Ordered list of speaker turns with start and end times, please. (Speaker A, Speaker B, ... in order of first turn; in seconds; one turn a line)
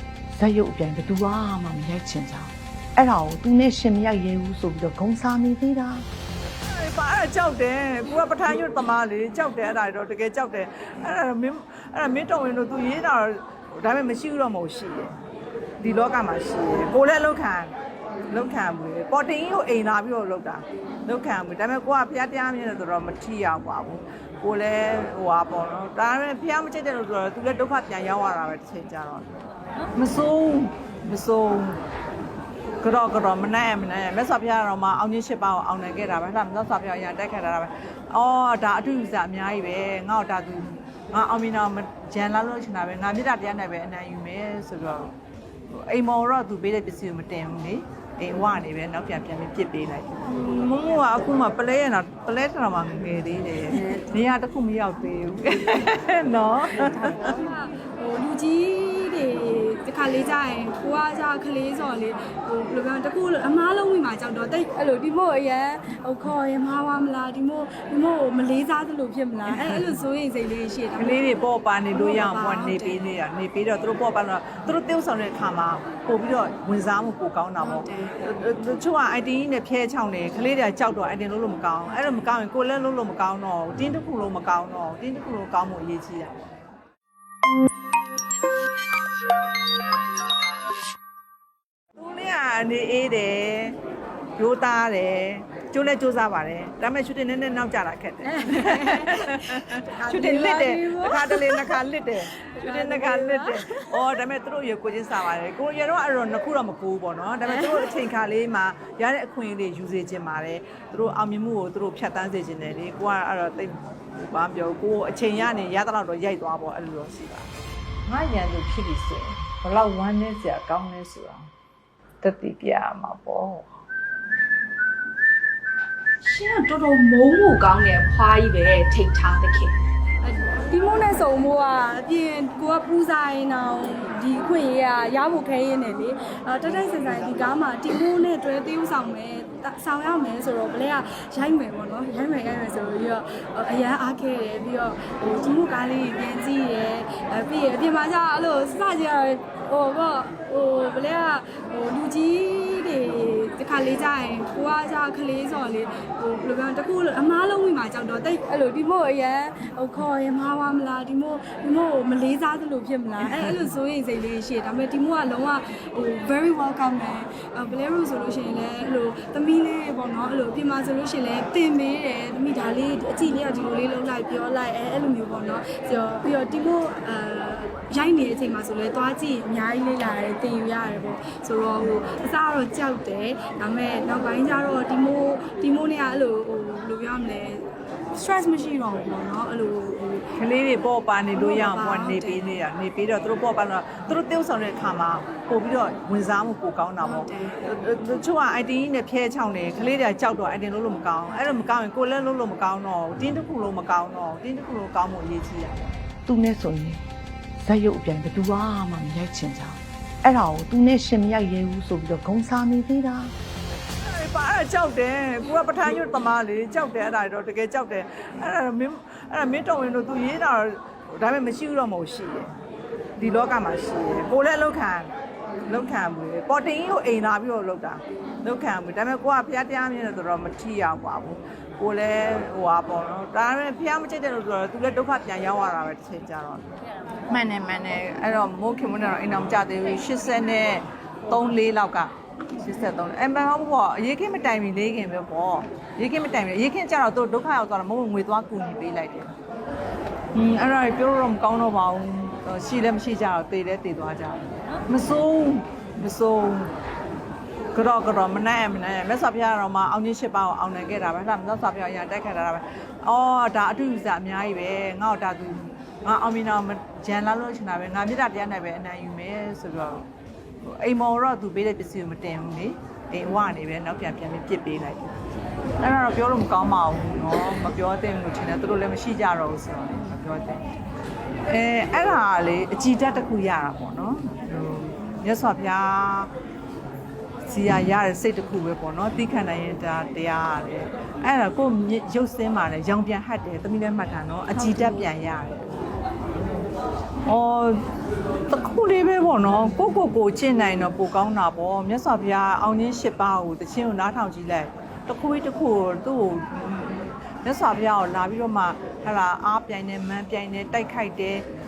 Speaker A: 0.3-6.0
Speaker B: 6.7-15.2
Speaker B: 15.8-17.7
Speaker B: 18.3-29.3
Speaker B: 29.9-31.8
Speaker B: 32.8-45.1
Speaker B: 45.7-57.2
Speaker C: 56.9-71.3
Speaker B: 69.5-70.0
Speaker B: 71.0-86.6
Speaker C: 71.9-73.2
Speaker C: 77.6-78.2
Speaker B: 92.0-93.8
Speaker B: 94.4-117.5
Speaker C: 98.2-101.8
Speaker C: 102.4-104.2
Speaker C: 107.5-107.9
Speaker B: 118.1-121.5
Speaker B: 122.2-123.7
Speaker D: 126.2-129.7
Speaker C: 126.3-126.9
Speaker C: 130.2-190.3
Speaker B: 163.3-163.7
Speaker B: 190.4-205.9
Speaker C: 191.3-192.6
Speaker C: 197.0-197.7
Speaker A: 206.3-207.0
Speaker A: 207.6-213.3
Speaker B: 214.0-222.5
Speaker B: 223.2-225.1
Speaker B: 225.7-236.7
Speaker B: 237.3-249.4
Speaker B: 250.3-256.7
Speaker B: 257.7-270.1
Speaker B: 270.6-275.1
Speaker B: 275.8-280.6
Speaker B: 281.4-286.3
Speaker B: 287.4-295.8
Speaker C: 294.5-295.1
Speaker B: 297.3-297.9
Speaker B: 298.5-311.5